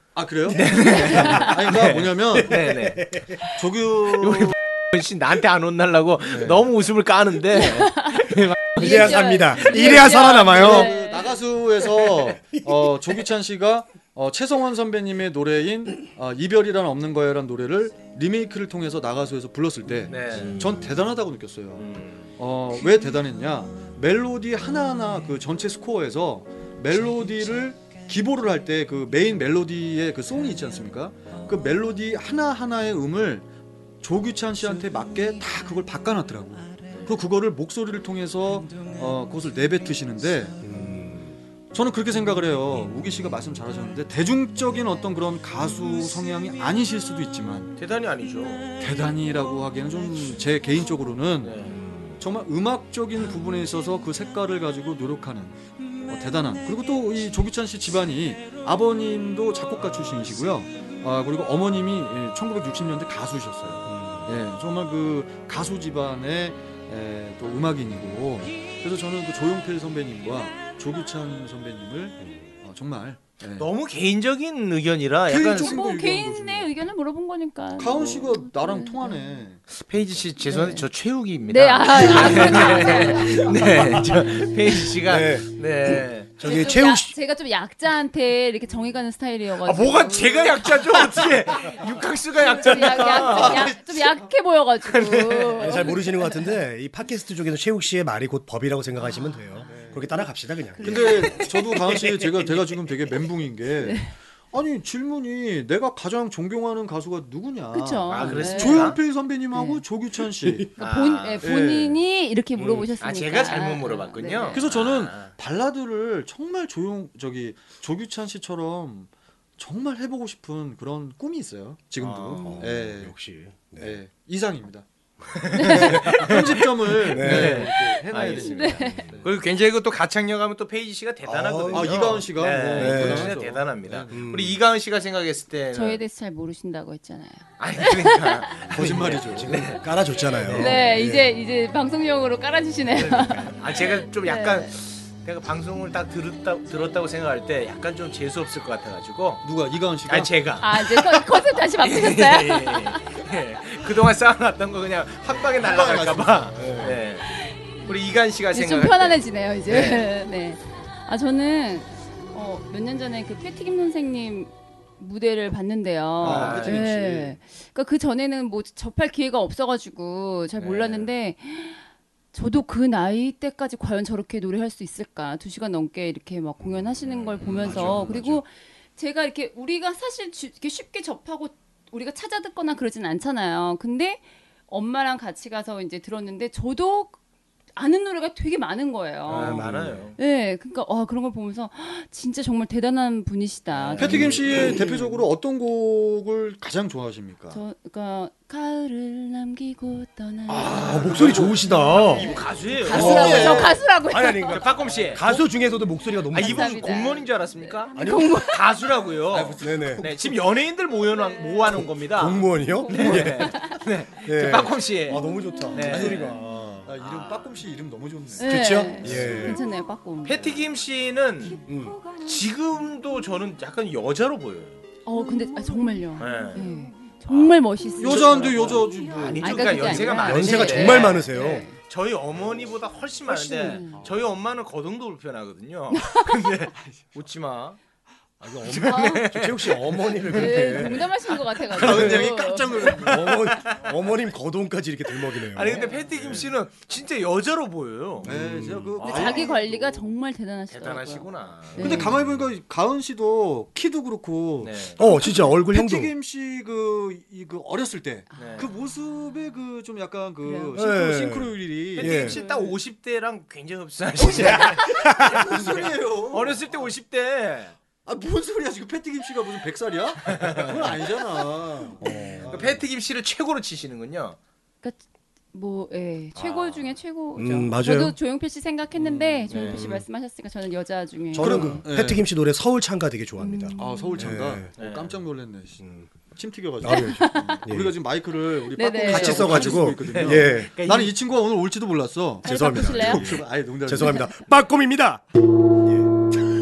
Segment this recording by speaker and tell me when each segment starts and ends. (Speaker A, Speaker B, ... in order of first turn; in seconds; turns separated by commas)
Speaker A: 0.1-2.7, Speaker B: 0.5-3.1, Speaker C: 2.3-3.5, Speaker A: 3.4-4.5, Speaker B: 4.1-9.2, Speaker A: 6.3-6.7, Speaker D: 7.5-11.4, Speaker C: 8.8-10.9, Speaker A: 9.6-33.5, Speaker B: 20.1-20.6, Speaker B: 21.8-22.3, Speaker A: 34.0-40.6, Speaker C: 40.6-41.4, Speaker A: 41.7-47.7, Speaker B: 47.8-48.7, Speaker A: 48.8-73.7, Speaker B: 51.4-52.1, Speaker C: 63.9-64.3, Speaker B: 73.6-75.8, Speaker A: 75.3-76.7, Speaker D: 75.6-79.5, Speaker A: 77.8-79.6, Speaker B: 79.7-86.4, Speaker D: 80.5-80.9, Speaker D: 81.5-83.9, Speaker C: 85.0-87.1, Speaker D: 86.4-90.7, Speaker B: 89.6-93.8, Speaker D: 92.3-96.4, Speaker A: 92.9-94.2, Speaker B: 94.8-96.0, Speaker C: 95.6-101.4, Speaker A: 99.7-100.1, Speaker A: 100.8-110.7, Speaker D: 100.8-101.5, Speaker B: 100.9-102.4, Speaker D: 103.8-104.1, Speaker D: 107.7-109.0, Speaker B: 108.1-109.0, Speaker D: 109.5-109.8, Speaker C: 110.4-110.7, Speaker D: 110.8-114.6, Speaker B: 110.8-111.5, Speaker A: 111.4-112.0, Speaker C: 112.6-112.9, Speaker B: 113.0-115.3, Speaker A: 114.5-123.1, Speaker B: 122.0-122.7, Speaker C: 122.4-124.0, Speaker A: 123.8-124.9, Speaker B: 125.3-136.0, Speaker D: 125.5-126.1, Speaker A: 125.5-129.3, Speaker C: 125.7-126.3, Speaker C: 127.0-127.7, Speaker D: 128.3-129.1, Speaker C: 128.8-129.1, Speaker C: 131.3-133.4, Speaker A: 131.7-134.2, Speaker C: 134.1-134.6, Speaker D: 135.7-138.6, Speaker B: 137.6-140.8, Speaker A: 138.7-139.6, Speaker C: 138.8-141.3, Speaker A: 140.5-140.8, Speaker D: 140.5-144.7, Speaker B: 142.9-149.4, Speaker A: 149.4-150.3, Speaker B: 150.1-157.3, Speaker D: 150.6-153.3, Speaker A: 155.5-157.0, Speaker C: 156.6-157.0, Speaker D: 157.3-157.9, Speaker B: 157.8-160.1, Speaker D: 158.5-187.2, Speaker B: 166.2-166.9, Speaker A: 166.2-167.4, Speaker B: 170.6-171.1, Speaker B: 177.4-178.1, Speaker A: 177.4-178.4, Speaker C: 177.6-178.3, Speaker D: 187.8-189.7, Speaker B: 189.3-190.2, Speaker C: 189.3-190.1, Speaker D: 190.2-194.4, Speaker B: 193.7-194.3, Speaker C: 194.0-195.2, Speaker A: 194.0-197.6, Speaker D: 197.5-201.3, Speaker A: 200.5-203.8, Speaker C: 200.8-202.3, Speaker B: 201.9-203.8, Speaker D: 202.2-204.6, Speaker C: 202.9-206.9, Speaker B: 204.5-205.2, Speaker A: 205.0-205.5, Speaker D: 206.3-208.6, Speaker B: 206.3-216.4, Speaker C: 207.9-208.4, Speaker A: 209.3-210.4, Speaker C: 209.6-210.1, Speaker C: 211.8-216.9, Speaker D: 212.6-213.8, Speaker A: 215.8-219.5, Speaker B: 217.0-217.6, Speaker D: 218.4-220.4, Speaker C: 218.5-219.6, Speaker B: 220.2-224.8, Speaker C: 221.7-222.0, Speaker D: 225.1-231.8, Speaker B: 226.2-226.7, Speaker B: 227.3-237.8, Speaker A: 228.0-230.0, Speaker C: 230.2-231.7, Speaker D: 233.3-234.0, Speaker D: 235.9-236.4, Speaker C: 238.4-241.1, Speaker B: 238.6-240.9, Speaker D: 238.8-239.3, Speaker D: 240.3-243.1, Speaker A: 241.7-243.5, Speaker C: 241.8-242.3, Speaker C: 243.0-245.8, Speaker B: 243.3-243.8, Speaker B: 245.3-248.3, Speaker D: 245.6-246.1, Speaker A: 246.2-246.5, Speaker C: 248.2-249.0, Speaker A: 248.2-250.1, Speaker B: 249.0-249.5, Speaker D: 249.0-252.1, Speaker B: 250.7-252.0, Speaker A: 251.8-262.3, Speaker C: 251.9-252.4, Speaker B: 254.6-255.0, Speaker C: 255.0-256.1, Speaker D: 258.3-258.7, Speaker B: 258.4-258.7, Speaker D: 260.4-260.8, Speaker C: 260.8-262.4, Speaker B: 262.0-267.8, Speaker D: 262.1-262.8, Speaker A: 264.2-266.8, Speaker C: 264.2-265.9, Speaker A: 268.1-272.8, Speaker B: 270.3-271.0, Speaker C: 271.6-272.8, Speaker B: 272.4-274.4, Speaker D: 275.5-281.8, Speaker B: 276.4-277.0, Speaker C: 277.4-278.1, Speaker A: 279.0-279.8, Speaker B: 279.5-279.9, Speaker C: 279.7-280.0, Speaker C: 281.3-284.7, Speaker A: 281.4-282.2, Speaker D: 283.4-284.4, Speaker A: 283.8-294.3, Speaker B: 284.8-285.2, Speaker C: 285.8-286.1, Speaker C: 286.8-287.9, Speaker D: 286.8-287.7, Speaker D: 288.7-289.8, Speaker C: 289.0-290.7, Speaker B: 290.0-291.1, Speaker D: 292.4-293.4, Speaker C: 292.4-296.1